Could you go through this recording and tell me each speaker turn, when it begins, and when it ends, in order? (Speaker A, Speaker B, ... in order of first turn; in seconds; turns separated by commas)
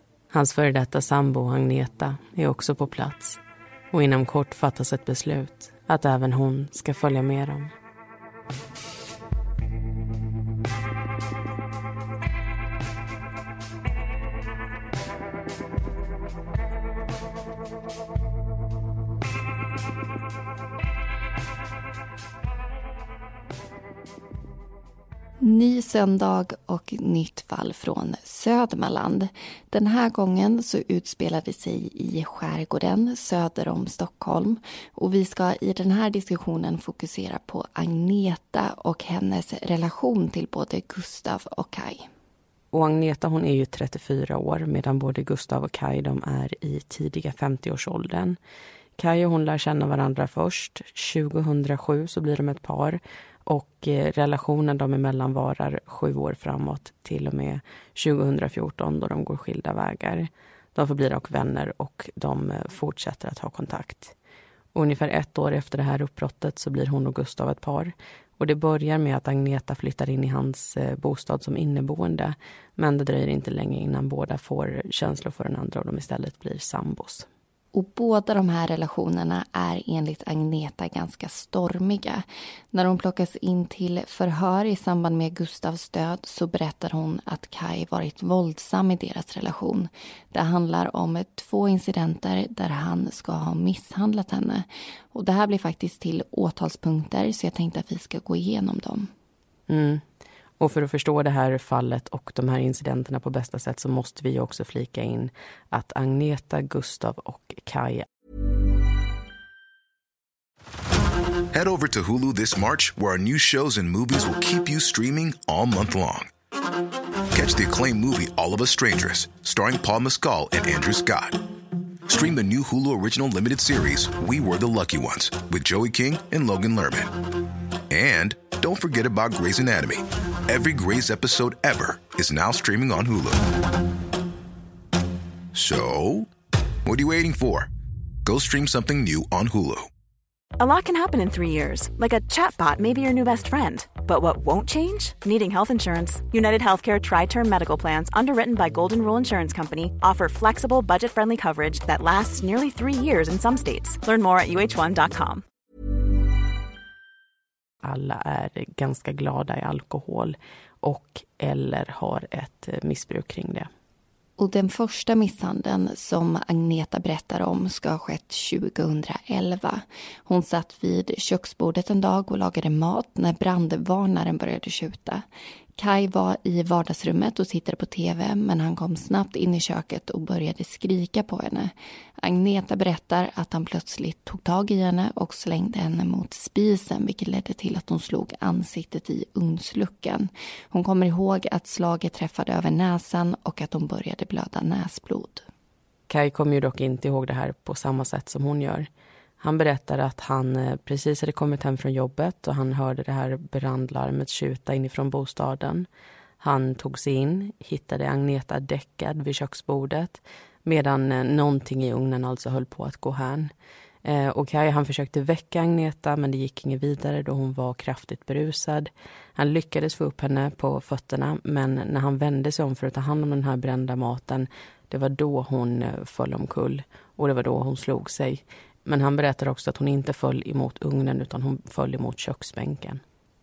Speaker A: 0.3-3.4, Speaker A: 3.9-7.7, Speaker B: 25.4-42.1, Speaker A: 42.7-48.4, Speaker A: 49.0-64.1, Speaker A: 64.7-77.3, Speaker B: 77.7-99.1, Speaker A: 99.7-100.0, Speaker A: 100.6-108.0, Speaker C: 111.5-116.3, Speaker C: 117.3-121.4, Speaker C: 122.1-127.2, Speaker C: 127.9-133.5, Speaker C: 135.5-136.3, Speaker C: 136.8-137.7, Speaker C: 138.2-139.9, Speaker D: 140.6-155.4, Speaker A: 157.8-163.7, Speaker B: 164.4-175.2, Speaker B: 175.8-195.4, Speaker A: 196.1-198.9, Speaker A: 199.4-205.9, Speaker A: 206.4-213.5, Speaker A: 214.0-233.0